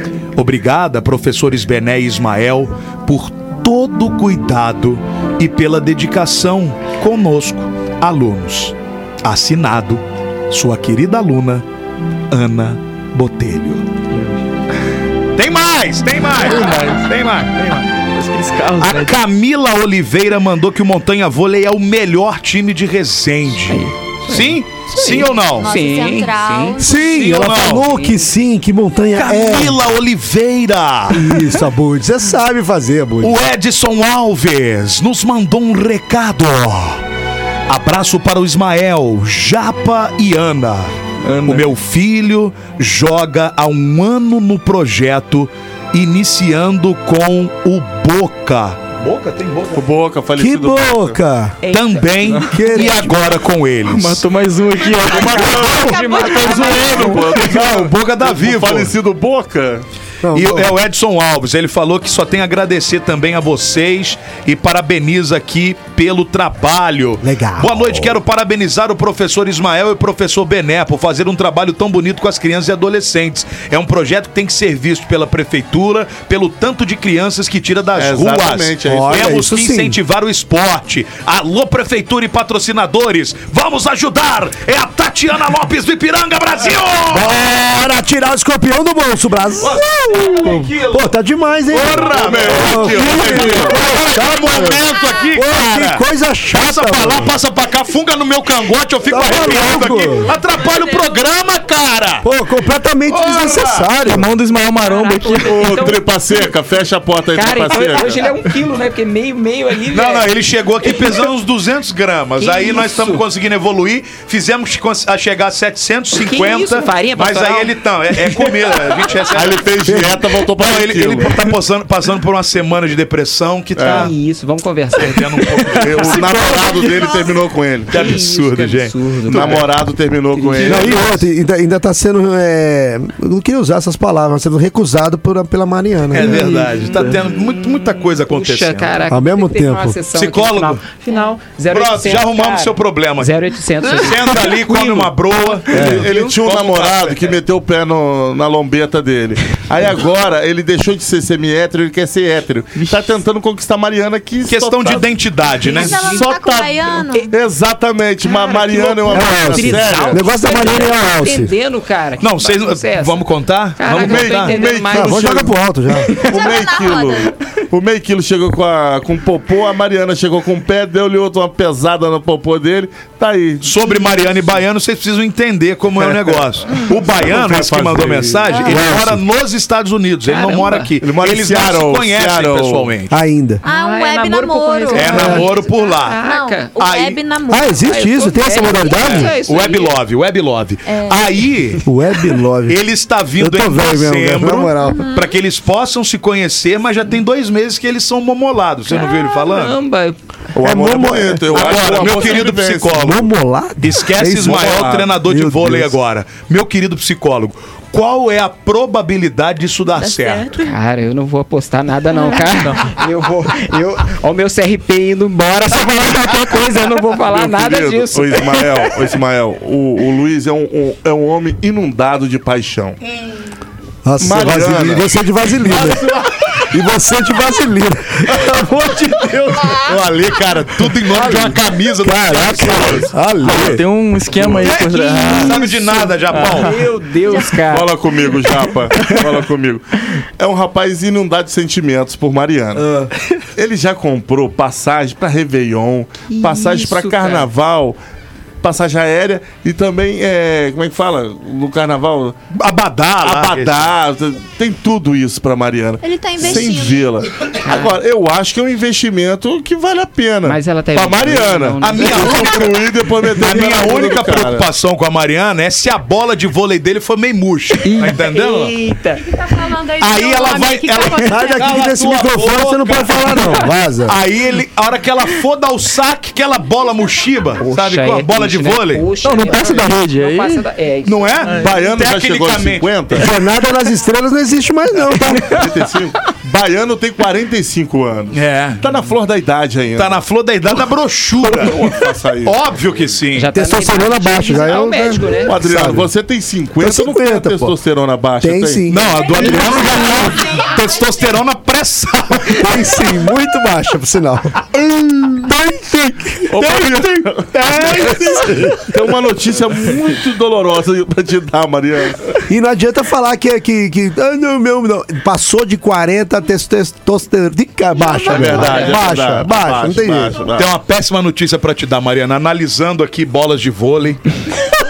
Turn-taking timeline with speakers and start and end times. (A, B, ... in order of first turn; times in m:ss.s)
0:00.4-0:11.6 A
0:12.3-0:13.9 A
0:15.4-0:17.8 A
0:16.4-0:17.1 B
0:17.6-0:19.2 B
0:18.8-0:25.7 A
0:23.7-0:26.8 C
0:25.5-0:27.4 D
0:26.8-0:29.8 E
0:27.1-0:27.9 A
0:27.9-0:28.2 C
0:29.2-0:31.2 A
0:31.1-0:33.4 E
0:33.2-0:37.0 A
0:37.7-0:49.8 A
0:49.7-0:51.2 F
0:50.4-0:51.6 E
0:51.6-0:53.0 C
0:51.7-0:54.3 A
0:52.5-0:53.2 E
0:53.8-0:56.0 B
0:55.1-0:59.8 F
0:55.3-0:57.1 C
0:55.7-0:57.2 D
0:56.7-0:59.0 A
0:56.7-0:57.1 B
1:00.2-1:00.8 E
1:00.3-1:27.4 A
1:07.2-1:08.2 E
1:18.0-1:19.3 F
1:18.8-1:20.0 E
1:27.1-1:34.8 E
1:29.6-1:31.1 A
1:31.7-1:42.3 A
1:32.1-1:33.8 F
1:35.3-1:37.4 E
1:39.0-1:40.3 E
1:42.2-1:44.3 E
1:43.3-1:43.9 A
1:44.0-1:45.9 B
1:44.8-1:46.5 C
1:45.4-1:48.2 F
1:47.3-1:50.3 C
1:49.9-2:04.1 A
1:50.8-1:51.3 C
1:52.4-1:53.2 C
1:56.1-1:58.9 C
1:59.3-2:01.3 F
1:59.9-2:00.2 E
2:03.8-2:04.1 F
2:03.9-2:07.2 C
2:05.0-2:06.5 A
2:05.7-2:07.9 F
2:07.9-2:09.7 A
2:07.9-2:09.7 C
2:09.3-2:11.2 F
2:10.3-2:11.1 C
2:10.6-2:16.6 E
2:16.1-2:19.0 A
2:16.2-2:17.2 B
2:16.9-2:25.1 C
2:19.1-2:20.0 E
2:20.1-2:20.8 A
2:21.7-2:23.3 A
2:23.9-2:27.4 A
2:25.7-2:26.1 E
2:25.7-2:40.3 F
2:32.8-2:33.2 B
2:34.5-2:36.2 A
2:35.6-2:37.3 D
2:38.3-2:45.4 C
2:39.1-2:41.5 E
2:42.2-2:44.6 A
2:43.9-2:45.5 F
2:44.9-2:46.1 E
2:46.2-2:47.3 D
2:46.2-2:54.5 F
2:53.6-3:03.2 A
2:56.0-2:58.6 F
2:58.5-2:58.8 D
2:58.7-2:59.2 E
3:00.3-3:00.9 C
3:01.0-3:02.9 F
3:03.1-3:03.6 E
3:03.6-3:08.0 D
3:03.6-3:06.8 C
3:04.9-3:06.2 A
3:06.8-3:07.2 A
3:07.5-3:09.3 E
3:07.8-3:10.0 C
3:09.0-3:11.9 A
3:10.9-3:11.4 D
3:11.8-3:12.8 E
3:12.7-3:19.8 A
3:13.4-3:15.0 E
3:14.8-3:15.3 D
3:18.9-3:20.2 C
3:20.6-3:23.1 F
3:20.6-3:22.2 E
3:21.5-3:23.3 A
3:23.0-3:26.0 E
3:23.8-3:30.5 A
3:24.4-3:25.1 F
3:30.0-3:30.7 D
3:30.6-3:38.9 C
3:32.2-3:32.5 D
3:37.3-3:43.0 F
3:44.0-3:46.1 E
3:44.2-3:45.1 F
3:46.7-3:49.8 E
3:49.3-3:53.8 A
3:51.1-3:53.8 E
3:53.4-3:56.9 B
3:54.3-3:56.8 A
3:56.4-3:57.9 C
3:57.7-3:59.8 F
3:59.0-3:59.4 B
4:00.4-4:02.9 F
4:02.8-4:03.1 E
4:03.6-4:08.0 F
4:06.3-4:07.5 C
4:08.6-4:12.4 F
4:12.5-4:13.9 A
4:13.2-4:24.7 F
4:16.0-4:17.1 D
4:17.6-4:18.0 C
4:20.4-4:22.6 C
4:21.8-4:28.7 A
4:27.9-4:29.3 C
4:29.6-4:31.6 D
4:30.0-4:39.1 A
4:31.2-4:34.2 E
4:37.6-4:41.6 C
4:39.2-4:40.6 B
4:41.1-4:43.2 A
4:41.4-4:42.0 B
4:41.6-4:43.3 F
4:43.1-4:45.6 E
4:45.5-4:50.2 F
4:48.3-4:48.9 A
4:50.0-4:53.5 A
4:51.4-4:53.2 F
4:53.4-4:55.5 C
4:53.5-4:56.1 E
4:55.5-4:58.9 F
4:56.8-4:57.8 E
4:58.4-5:00.4 E
4:58.9-5:03.0 A
4:59.4-4:59.7 F
5:02.5-5:08.9 E
5:06.5-5:12.3 F
5:12.5-5:20.4 E
5:18.3-5:20.7 F
5:18.3-5:19.0 A
5:20.6-5:24.3 A